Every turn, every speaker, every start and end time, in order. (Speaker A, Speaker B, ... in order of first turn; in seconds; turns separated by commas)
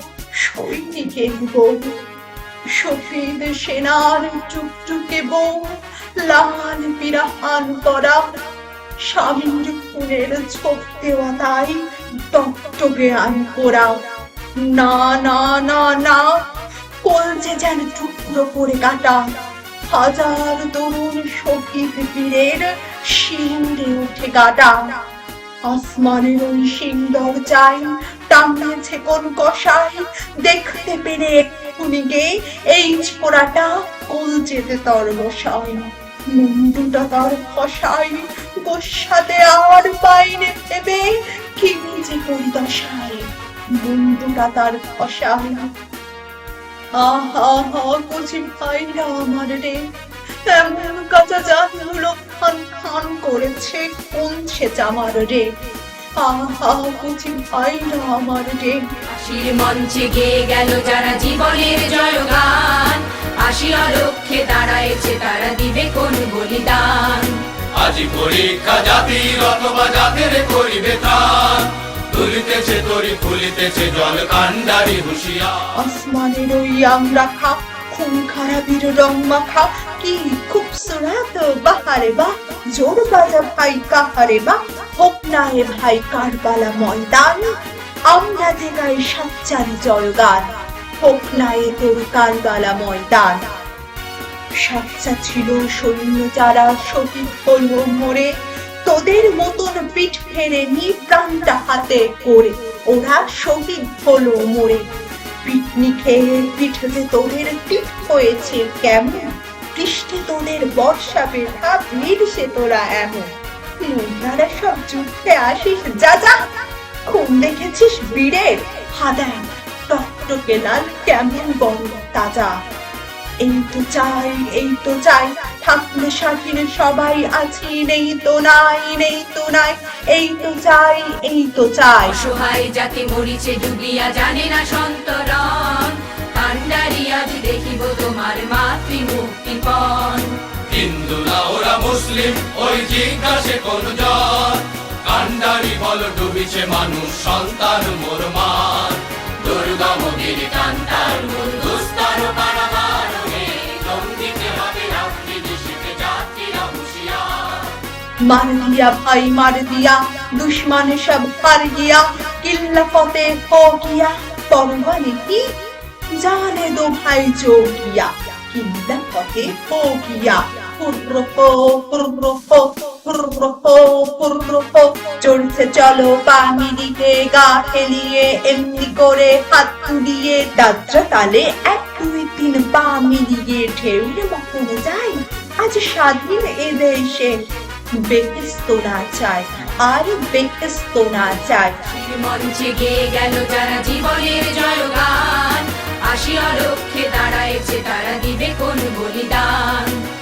Speaker A: 0.3-2.0, Speaker A: 2.7-8.4, Speaker A: 9.0-16.4, Speaker A: 17.0-25.0, Speaker A: 25.6-43.3, Speaker A: 43.8-45.7, Speaker A: 47.0-49.8, Speaker A: 50.5-55.5, Speaker A: 56.2-58.9, Speaker B: 59.1-67.4, Speaker C: 67.8-75.7, Speaker A: 75.8-93.5, Speaker A: 94.6-98.3, Speaker A: 98.8-104.9, Speaker A: 105.4-116.5, Speaker A: 117.1-122.6, Speaker A: 123.4-132.2, Speaker B: 132.1-140.3, Speaker C: 140.7-149.0, Speaker B: 149.4-157.7, Speaker A: 158.2-165.5, Speaker A: 166.1-187.4, Speaker A: 188.1-191.8, Speaker B: 191.8-200.0